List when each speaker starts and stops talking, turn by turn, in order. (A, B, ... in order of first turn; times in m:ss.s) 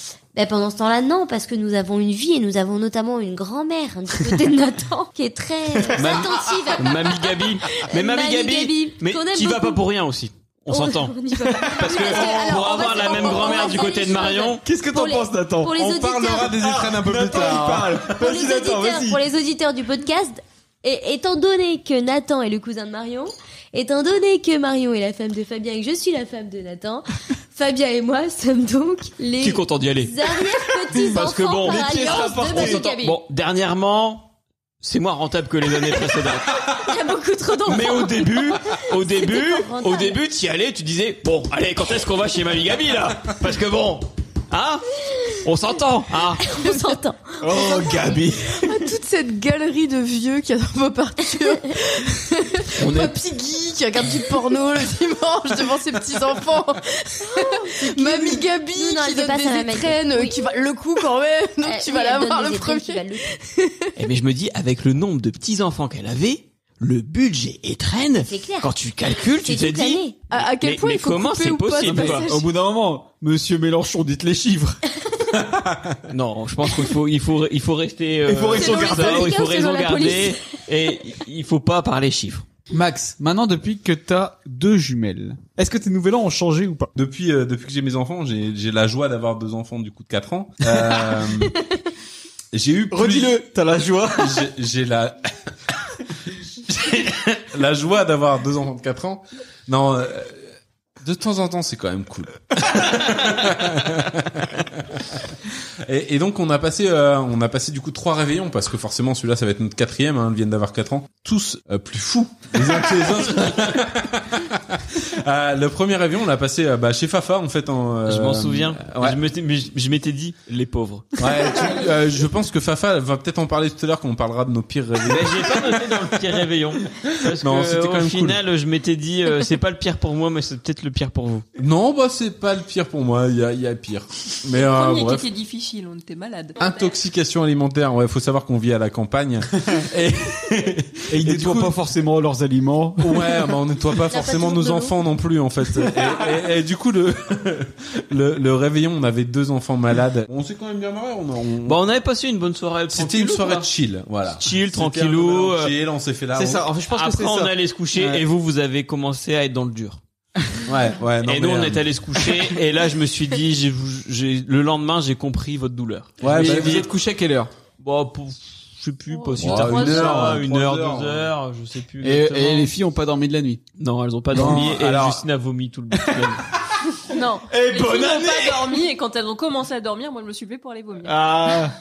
0:00.3-0:09.8 A
0:05.8-0:06.3 B
0:06.0-0:14.6 C
0:10.7-0:16.5 A
0:11.8-0:13.9 D
0:14.6-0:15.8 B
0:15.8-0:18.0 E
0:16.5-0:19.2 B
0:18.1-0:33.2 A
0:29.4-0:30.1 C
0:30.9-0:32.9 B
0:31.0-0:34.3 C
0:34.8-0:36.6 C
0:36.8-0:38.3 A
0:37.6-0:46.4 C
0:39.0-0:40.2 A
0:46.4-0:48.2 A
0:47.4-0:48.5 B
0:48.6-1:03.9 D
0:52.8-0:53.2 C
0:57.3-1:00.5 A
1:01.6-1:03.3 A
1:04.0-1:12.3 C
1:08.2-1:08.7 A
1:09.3-1:10.2 A
1:10.3-1:12.5 D
1:11.8-1:14.8 B
1:15.5-1:16.0 E
1:16.1-1:22.4 C
1:18.3-1:19.4 B
1:18.5-1:20.4 A
1:22.7-1:26.9 B
1:27.0-1:31.5 E
1:32.5-1:33.4 E
1:32.9-1:34.4 B
1:34.2-1:35.2 E
1:36.7-1:40.4 E
1:41.0-1:45.2 E
1:45.8-1:59.2 E
1:58.1-2:01.2 C
2:01.2-2:05.7 E
2:05.1-2:11.4 C
2:07.3-2:08.4 E
2:11.6-2:15.3 E
2:14.5-2:16.6 F
2:16.6-2:21.7 E
2:21.1-2:23.4 B
2:23.0-2:31.8 E
2:24.1-2:25.0 A
2:31.6-2:33.7 C
2:32.9-2:36.7 E
2:34.4-2:35.7 C
2:36.3-2:38.2 B
2:36.9-2:40.0 C
2:40.6-2:41.8 E
2:41.2-2:46.9 C
2:46.2-2:46.8 E
2:46.3-2:47.5 B
2:47.8-2:52.7 C
2:49.1-2:50.3 F
2:49.4-2:51.3 E
2:52.0-2:53.6 B
2:53.8-2:56.4 C
2:54.3-2:55.2 E
2:54.4-2:54.6 B
2:57.1-3:01.2 F
2:57.5-2:58.8 B
3:01.0-3:01.7 B